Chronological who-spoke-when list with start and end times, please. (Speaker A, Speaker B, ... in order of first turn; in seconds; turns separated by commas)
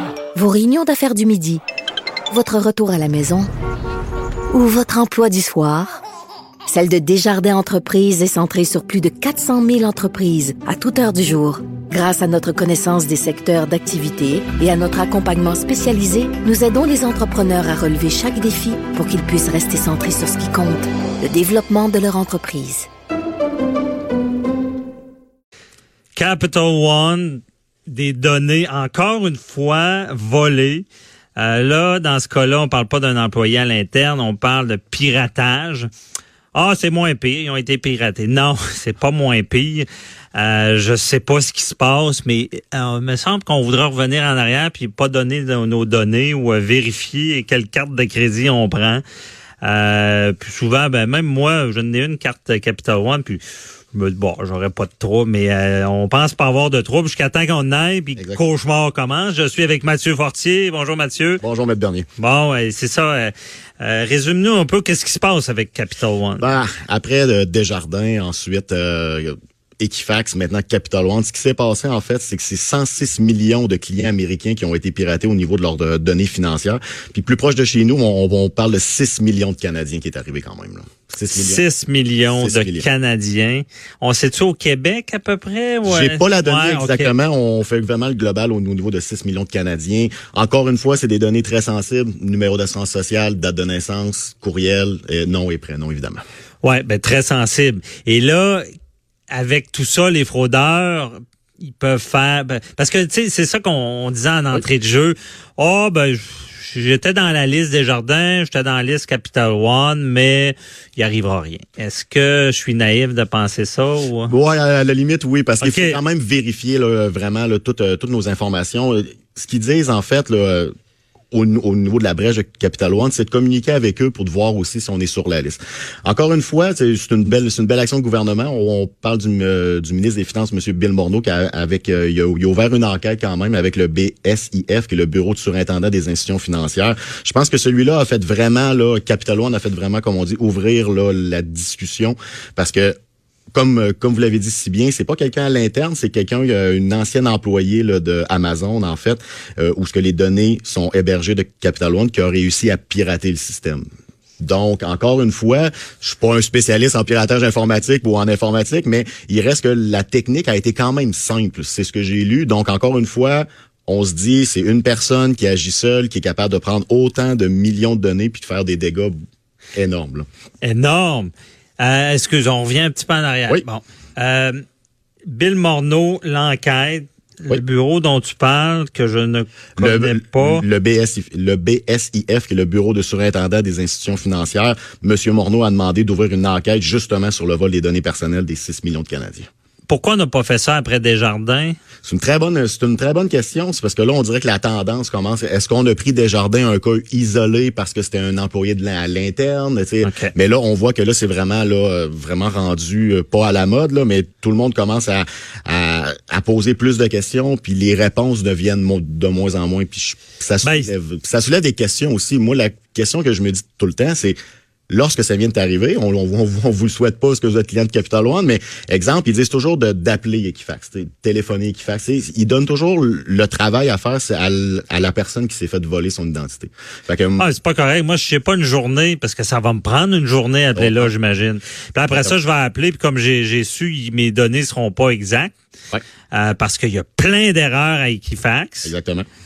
Speaker A: 0.3-1.6, Speaker A: 2.3-3.5, Speaker A: 4.5-6.0, Speaker A: 6.7-22.9, Speaker B: 26.2-30.9, Speaker B: 31.4-35.9, Speaker B: 36.5-49.0, Speaker B: 49.6-53.4, Speaker B: 53.9-61.4, Speaker C: 58.2-58.4, Speaker C: 61.4-62.1, Speaker B: 62.2-66.5, Speaker C: 66.4-81.6, Speaker B: 81.3-87.1, Speaker C: 82.3-82.9, Speaker C: 85.8-96.2, Speaker B: 96.6-98.7, Speaker B: 99.3-114.3, Speaker C: 114.3-120.7, Speaker B: 115.6-116.0, Speaker C: 121.3-143.0, Speaker C: 143.5-153.8, Speaker C: 154.4-169.2, Speaker C: 169.7-170.3, Speaker B: 170.6-174.6, Speaker B: 175.3-180.6, Speaker C: 179.8-189.5, Speaker B: 189.9-191.8, Speaker C: 192.0-214.4, Speaker B: 200.0-200.3, Speaker B: 210.6-210.9, Speaker C: 214.9-227.4, Speaker B: 227.4-235.5, Speaker C: 230.8-231.1, Speaker C: 232.1-232.3, Speaker B: 236.3-238.9, Speaker C: 238.8-239.3